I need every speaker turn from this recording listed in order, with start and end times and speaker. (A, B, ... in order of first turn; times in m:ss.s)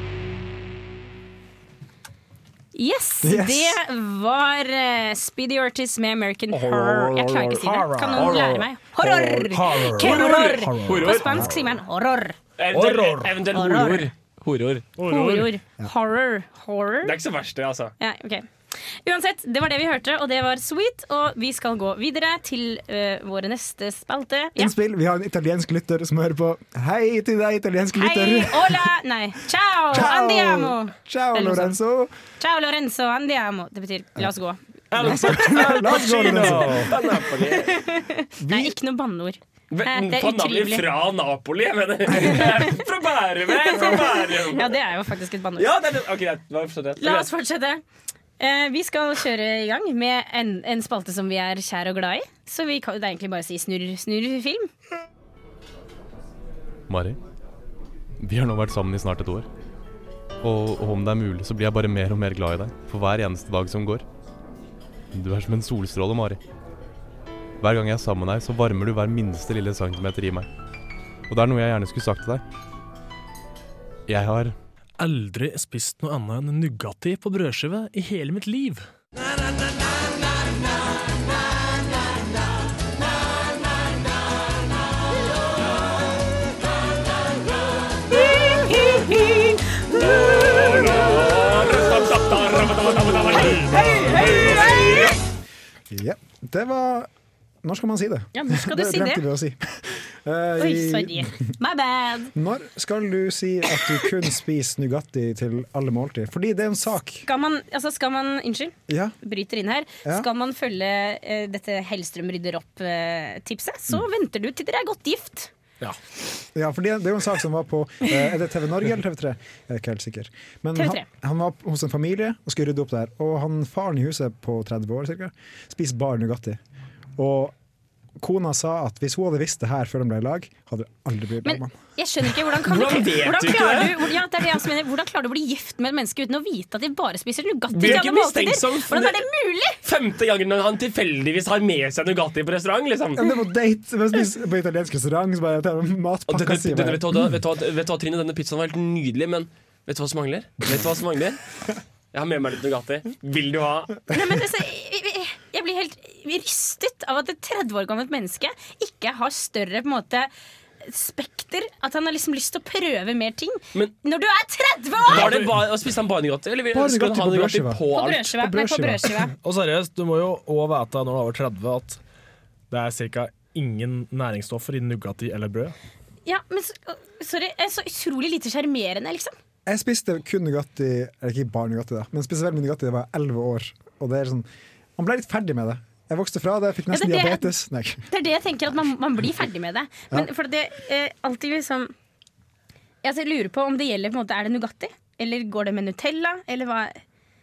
0:02.7-0:12.4 A
0:03.2-0:03.8 B
0:06.5-0:11.4 C
0:08.1-0:08.6 D
0:10.0-0:11.5 D
0:12.6-0:14.9 D
0:12.7-0:13.4 C
0:13.5-0:14.1 A
0:15.0-0:15.5 C
0:15.1-0:17.1 A
0:17.0-0:17.9 D
0:18.0-0:24.7 A
0:24.6-0:28.8 B
0:28.0-0:31.8 A
0:29.9-0:32.1 B
0:32.4-0:35.3 A
0:34.9-0:36.9 C
0:35.0-0:36.9 B
0:36.2-0:37.7 D
0:37.4-0:40.9 A
0:38.4-0:38.7 B
0:39.7-0:44.7 D
0:42.4-0:42.7 A
0:43.6-0:45.7 A
0:45.6-0:47.3 D
0:47.0-0:47.8 A
0:48.4-0:54.7 A
0:56.9-0:57.2 E
0:58.2-0:59.5 E
1:00.4-1:04.0 E
1:05.1-1:06.4 E
1:07.6-1:10.5 E
1:11.3-1:12.4 E
1:14.1-1:14.5 E
1:15.0-1:18.9 C
1:28.1-1:30.6 A
1:30.0-1:35.1 D
1:33.6-1:35.1 A
1:35.9-1:37.1 B
1:37.6-1:41.5 B
1:38.3-1:39.2 A
1:40.6-1:42.3 A
1:42.3-1:47.2 B
1:47.2-1:55.5 A
1:48.9-1:49.1 B
1:56.5-2:06.6 B
2:00.8-2:01.0 A
2:07.2-2:07.5 B
2:08.2-2:11.8 B
2:11.4-2:19.8 A
2:12.7-2:14.1 D
2:17.7-2:19.3 D
2:19.8-2:23.2 D
2:23.2-2:27.3 B
2:26.3-2:31.4 D
2:32.1-2:34.0 D
2:34.1-2:40.3 A
2:40.8-2:45.3 A
2:45.1-2:48.3 D
2:45.1-2:45.6 C
2:46.7-2:49.2 B
2:47.9-2:49.3 A
2:49.4-2:52.0 C
2:52.7-2:55.7 C
2:56.2-2:59.3 A
2:59.6-3:04.4 B
3:05.0-3:08.1 B
3:06.9-3:07.5 A
3:08.1-3:11.9 A
3:13.0-3:17.0 A